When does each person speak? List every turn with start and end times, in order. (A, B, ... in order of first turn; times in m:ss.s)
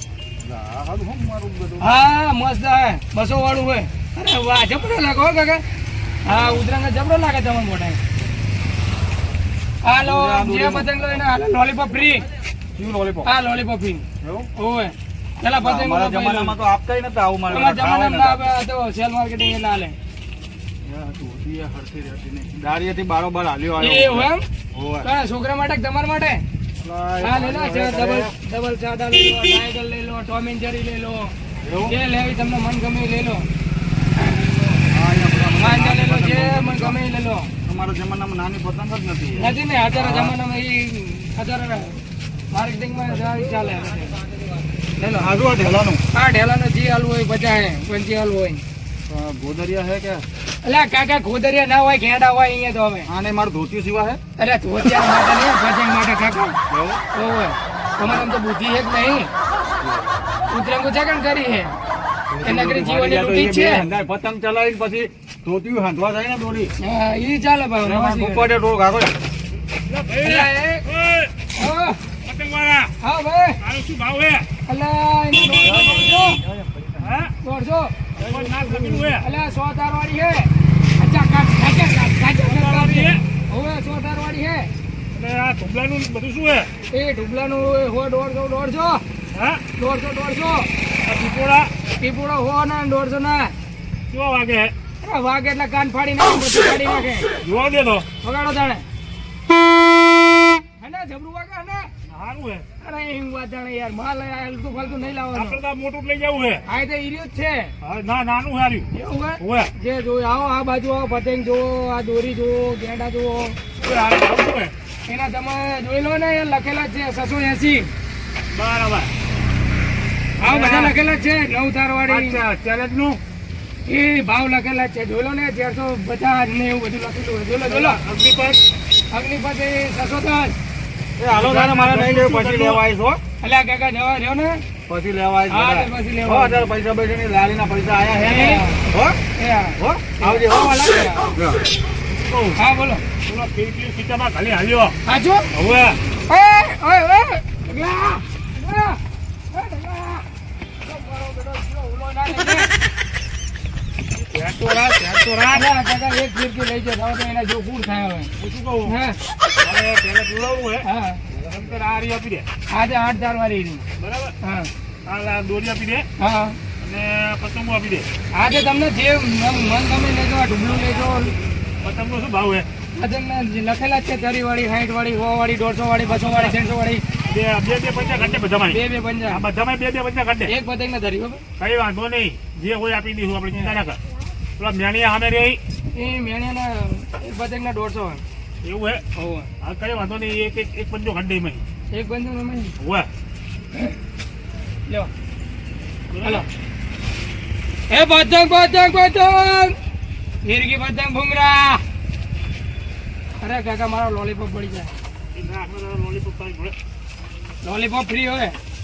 0:00.4-0:01.9 A
0:01.8-0:05.6 B
0:06.2-0:08.0 B
0:06.3-0:06.6 A
0:09.8-0:12.3 B
0:10.0-0:10.9 A
0:12.8-0:13.3 A
0:13.2-0:16.6 B
0:14.2-0:14.5 A
0:15.6-0:18.5 A
0:17.5-0:20.0 B
0:20.8-0:25.1 A
0:23.8-0:24.4 B
0:25.0-0:26.4 B
0:26.8-0:28.3 A
0:27.2-0:31.3 B
0:31.6-0:32.0 A
0:31.9-0:33.5 B
0:34.9-0:37.0 A
0:35.6-0:37.5 B
0:37.6-0:40.4 A
0:39.4-0:42.0 B
0:42.5-0:44.2 B
0:45.0-0:45.3 B
0:45.1-0:46.0 A
0:46.1-0:48.6 B
0:49.1-0:50.2 A
0:50.6-0:53.1 B
0:53.1-0:54.2 A
0:54.4-0:56.6 B
0:56.7-0:57.0 A
0:57.1-0:59.3 B
0:59.8-1:00.1 A
1:00.5-1:01.8 B
1:02.3-1:06.7 A
1:02.4-1:03.8 B
1:06.8-1:08.5 B
1:07.8-1:09.2 A
1:09.7-1:11.3 C
1:10.2-1:10.8 B
1:11.6-1:12.0 B
1:12.2-1:12.9 C
1:13.0-1:13.6 B
1:13.6-1:14.5 C
1:14.6-1:16.4 B
1:15.5-1:16.1 C
1:15.6-1:17.3 A
1:17.0-1:17.3 C
1:17.4-1:17.9 B
1:18.2-1:19.2 C
1:18.2-1:19.0 A
1:19.2-1:24.7 B
1:22.4-1:23.2 C
1:25.1-1:26.7 C
1:26.9-1:29.0 B
1:29.3-1:29.6 C
1:29.8-1:30.7 B
1:31.0-1:31.7 C
1:32.0-1:33.5 B
1:34.1-1:34.7 C
1:35.0-1:37.3 B
1:37.4-1:38.1 C
1:38.2-1:38.8 B
1:40.8-1:41.9 B
1:42.1-1:42.7 C
1:42.8-1:45.6 B
1:45.3-1:46.6 C
1:46.7-1:47.7 B
1:47.8-1:49.7 C
1:48.9-1:53.7 B
1:53.8-1:54.7 C
1:55.1-1:57.9 B
1:58.5-1:59.1 C
2:00.4-2:02.4 B
2:00.4-2:00.9 C
2:02.1-2:03.2 C
2:03.9-2:08.0 B
2:07.6-2:08.7 C
2:09.1-2:10.6 B
2:11.2-2:13.2 A
2:11.3-2:12.8 C
2:13.4-2:14.6 B
2:14.9-2:19.2 A
2:15.5-2:16.6 B
2:18.2-2:18.8 B
2:19.4-2:21.2 B
2:19.8-2:21.6 A
2:22.1-2:22.6 C
2:22.6-2:23.0 B
2:23.3-2:25.0 C
2:25.1-2:25.5 B
2:25.5-2:26.0 C
2:26.3-2:29.0 B
2:29.5-2:30.2 B
2:30.8-2:32.7 B
2:34.2-2:35.6 C
2:35.5-2:38.3 B
2:38.4-2:38.9 C
2:38.9-2:39.2 B
2:39.6-2:42.5 C
2:40.8-2:41.2 B
2:42.7-2:43.8 B
2:44.0-2:44.3 C
2:44.4-2:44.7 B
2:45.1-2:46.1 C
2:46.2-2:46.6 B
2:46.8-2:48.1 C
2:48.4-2:51.4 B
2:51.8-2:52.7 C
2:53.0-2:57.0 B
2:56.1-2:56.6 C
2:57.3-3:00.5 C
2:58.7-2:59.4 B
3:00.5-3:01.4 B
3:01.6-3:04.0 C
3:04.6-3:05.6 C
3:05.9-3:08.2 B
3:08.6-3:09.0 C
3:09.2-3:09.5 B
3:09.6-3:11.6 C
3:11.9-3:12.7 B
3:12.8-3:13.1 C
3:16.1-3:16.5 C
3:17.9-3:19.8 B
3:20.4-3:21.8 B
3:23.4-3:24.9 B
3:25.4-3:26.8 C
3:27.6-3:28.6 B